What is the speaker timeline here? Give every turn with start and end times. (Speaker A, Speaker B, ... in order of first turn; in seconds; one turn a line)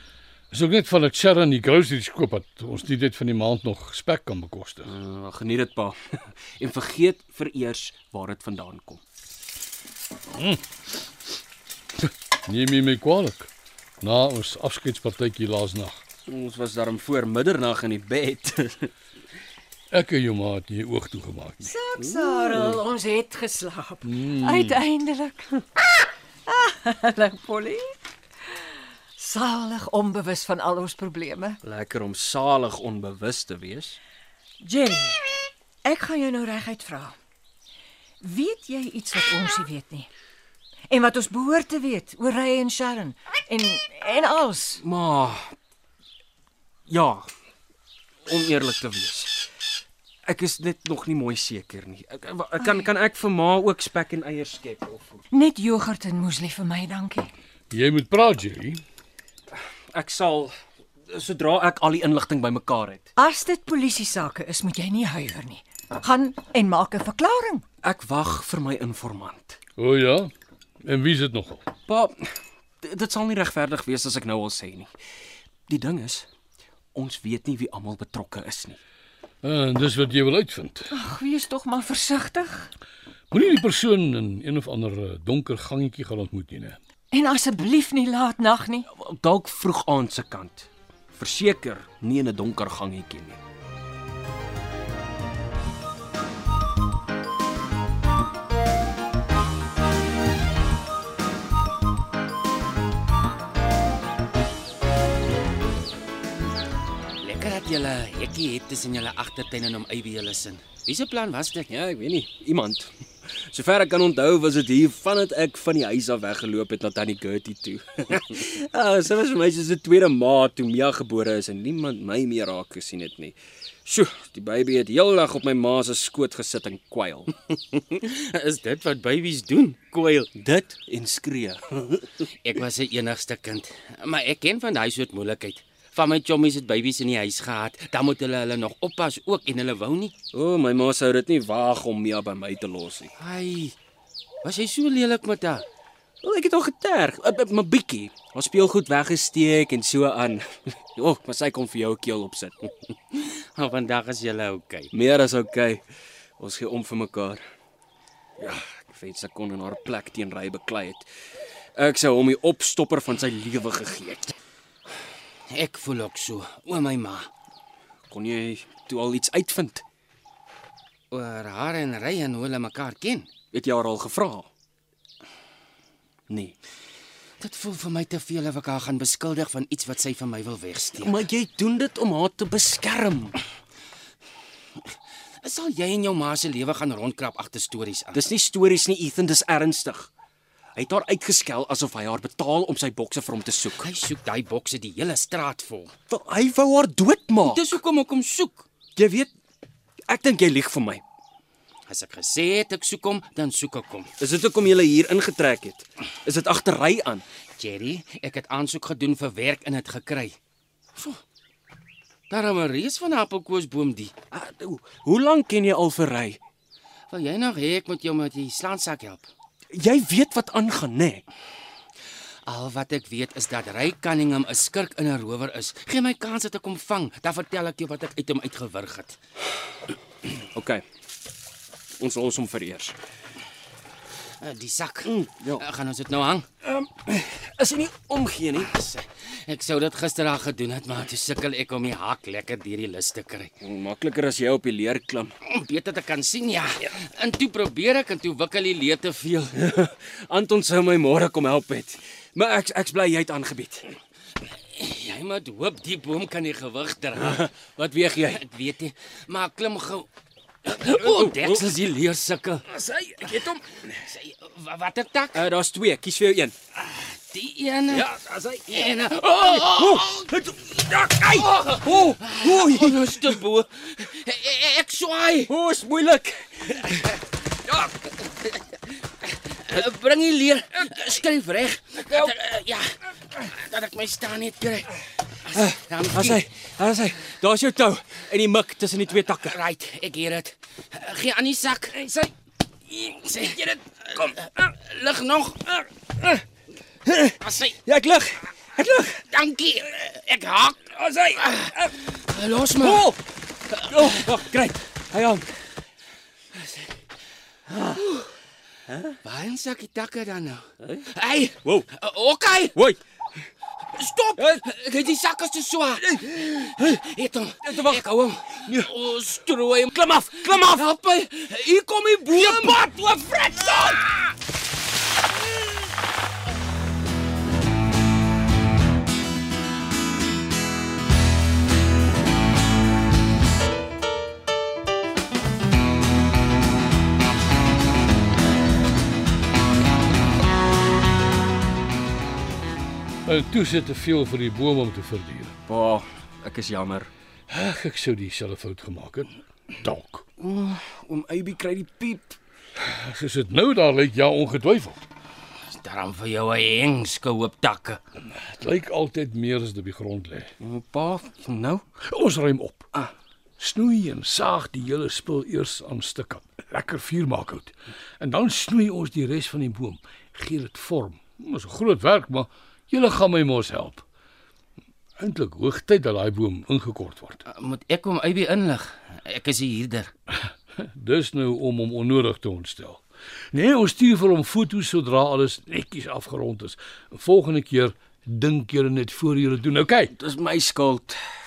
Speaker A: 0.5-4.9
Speaker B: 4.9-9.0
Speaker A: 10.3-10.6
Speaker A: 12.4-13.5
Speaker A: 14.0-16.0
Speaker B: 16.3-18.9
Speaker A: 19.9-21.8
Speaker C: 21.6-25.9
Speaker B: 22.0-22.8
Speaker A: 24.1-24.8
Speaker C: 26.5-31.6
Speaker B: 31.6-34.0
Speaker C: 34.6-35.2
Speaker C: 35.8-37.2
Speaker C: 38.2-40.1
Speaker C: 40.9-44.8
Speaker B: 44.8-45.5
Speaker B: 46.9-47.3
Speaker B: 48.3-49.4
Speaker B: 50.2-55.2
Speaker C: 55.3-57.3
Speaker A: 57.7-58.8
Speaker B: 59.5-60.5
Speaker B: 61.1-63.1
Speaker C: 63.2-67.7
Speaker B: 67.8-69.6
Speaker A: 69.8-70.3
Speaker A: 70.8-71.7
Speaker B: 71.9-72.3
Speaker B: 72.8-74.9
Speaker B: 75.7-76.2
Speaker B: 76.9-78.8
Speaker A: 79.4-80.9
Speaker C: 80.9-82.7
Speaker A: 83.3-86.8
Speaker C: 87.1-88.9
Speaker B: 88.9-93.4
Speaker D: 107.2-111.7
Speaker B: 111.7-127.3
Speaker D: 127.7-130.3
Speaker B: 130.3-132.2
Speaker D: 132.4-140.1
Speaker B: 140.3-143.1
Speaker D: 143.2-143.8
Speaker D: 144.4-145.7
Speaker B: 146.2-152.6
Speaker D: 153.2-154.9
Speaker B: 154.9-155.8
Speaker B: 156.4-157.4
Speaker B: 158.4-161.1
Speaker B: 161.8-164.3
Speaker D: 165.5-167.3
Speaker B: 168.1-169.8
Speaker D: 171.1-173.4
Speaker B: 173.5-174.5
Speaker B: 176.3-176.6
Speaker D: 177.4-181.2
Speaker B: 181.0-183.4
Speaker D: 185.4-188.2
Speaker B: 188.1-190.1
Speaker B: 190.8-193.9
Speaker D: 193.8-195.9
Speaker B: 196.1-197.7
Speaker D: 197.4-198.7
Speaker B: 198.9-199.3
Speaker B: 200.1-201.0
Speaker D: 201.9-204.1
Speaker B: 204.2-207.2
Speaker D: 207.6-210.4
Speaker D: 212.3-214.1
Speaker B: 214.3-216.4
Speaker D: 217.1-219.3
Speaker B: 219.7-221.2
Speaker D: 222.5-229.2
Speaker B: 230.5-230.8
Speaker B: 232.0-232.9
Speaker D: 234.4-236.4
Speaker B: 235.1-235.7
Speaker B: 236.6-238.7
Speaker D: 238.7-243.5
Speaker B: 243.6-245.3
Speaker D: 245.4-249.6
Speaker B: 249.6-254.0
Speaker D: 254.7-257.4
Speaker B: 257.2-258.4
Speaker D: 258.3-260.1
Speaker D: 260.7-262.7
Speaker B: 260.7-261.6
Speaker B: 262.7-263.9
Speaker D: 264.0-265.4
Speaker B: 265.3-266.6
Speaker D: 266.8-268.1
Speaker B: 267.9-273.4
Speaker D: 268.8-270.3
Speaker D: 271.3-275.5
Speaker B: 275.5-276.9
Speaker D: 279.4-286.5
Speaker B: 285.5-289.6
Speaker D: 289.4-292.3
Speaker D: 292.9-295.9
Speaker B: 297.1-299.2
Speaker D: 297.4-297.8
Speaker D: 299.2-303.1
Speaker B: 300.9-301.9
Speaker B: 302.8-305.5
Speaker B: 307.7-308.0
Speaker D: 309.2-312.9
Speaker D: 313.9-324.3
Speaker B: 316.0-316.9
Speaker B: 317.6-318.0
Speaker B: 320.0-320.7
Speaker B: 322.5-322.8
Speaker A: 343.2-345.6
Speaker B: 345.7-347.1
Speaker A: 347.5-350.2
Speaker B: 350.4-352.4
Speaker A: 352.8-355.0
Speaker D: 355.7-358.0
Speaker A: 358.3-360.5
Speaker B: 360.6-361.8
Speaker A: 362.0-362.9
Speaker A: 363.6-374.1
Speaker A: 375.2-377.4
Speaker D: 377.5-380.1
Speaker A: 380.8-390.1
Speaker B: 390.1-391.2